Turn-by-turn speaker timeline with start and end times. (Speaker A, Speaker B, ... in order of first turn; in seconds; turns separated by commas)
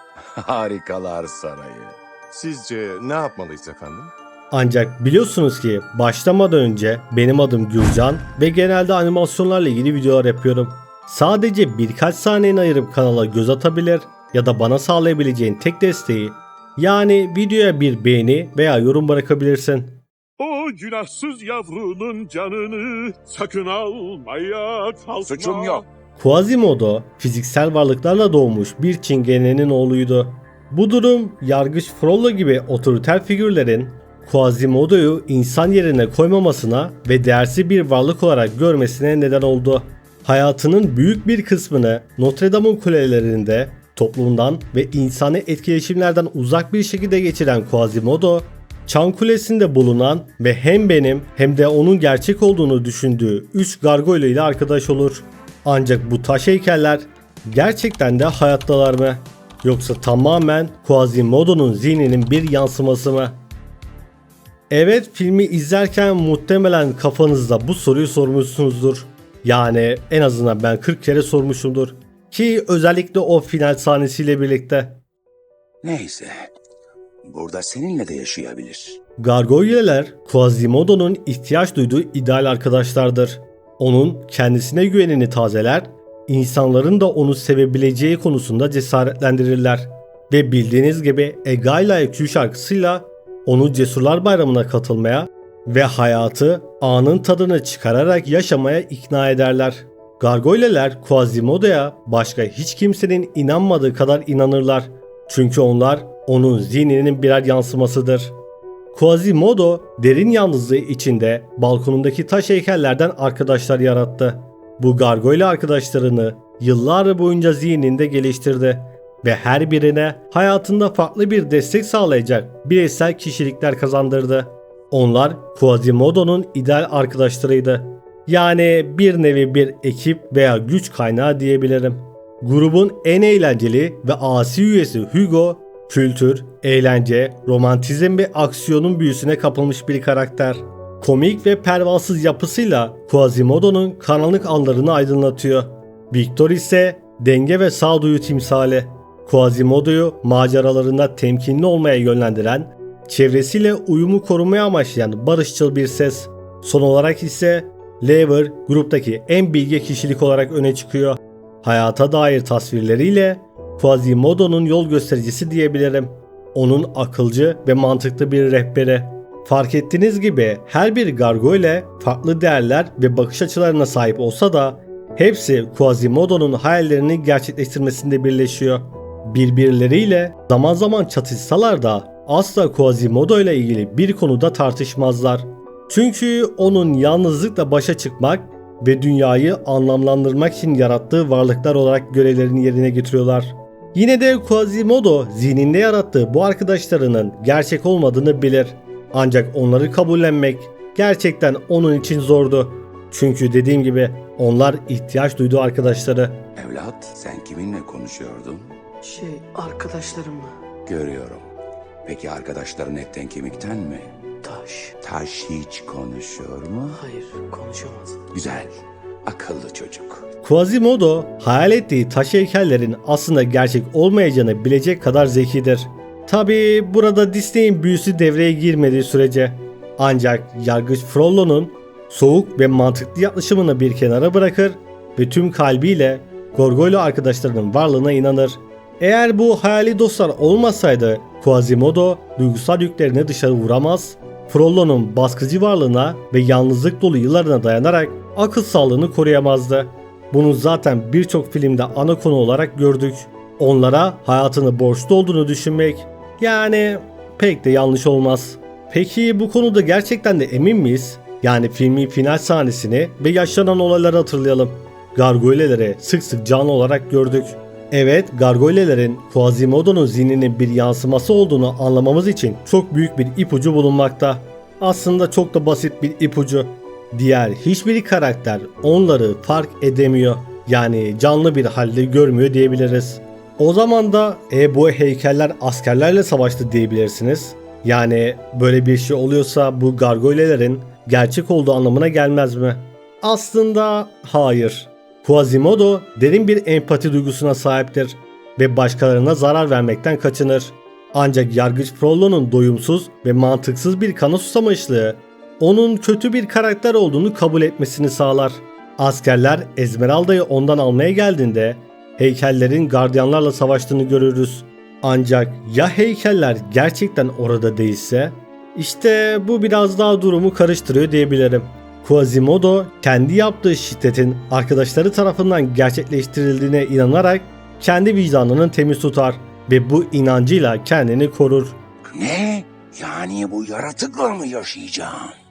Speaker A: 0.4-1.8, Speaker B: 0.7-1.8, Speaker B: 2.3-4.1, Speaker C: 4.5-20.0, Speaker D: 20.4-25.8, Speaker A: 25.2-25.8, Speaker C: 26.1-63.4, Speaker C: 64.7-75.0, Speaker A: 75.8-76.5, Speaker A: 77.2-79.0, Speaker C: 79.2-108.3, Speaker C: 108.9-206.4, Speaker A: 206.6-208.7, Speaker E: 209.0-210.6, Speaker A: 210.8-211.5, Speaker A: 212.0-214.1, Speaker E: 214.4-214.9, Speaker A: 215.0-217.0, Speaker E: 216.9-218.3, Speaker A: 218.3-220.2, Speaker C: 220.4-331.8, Speaker A: 332.1-335.3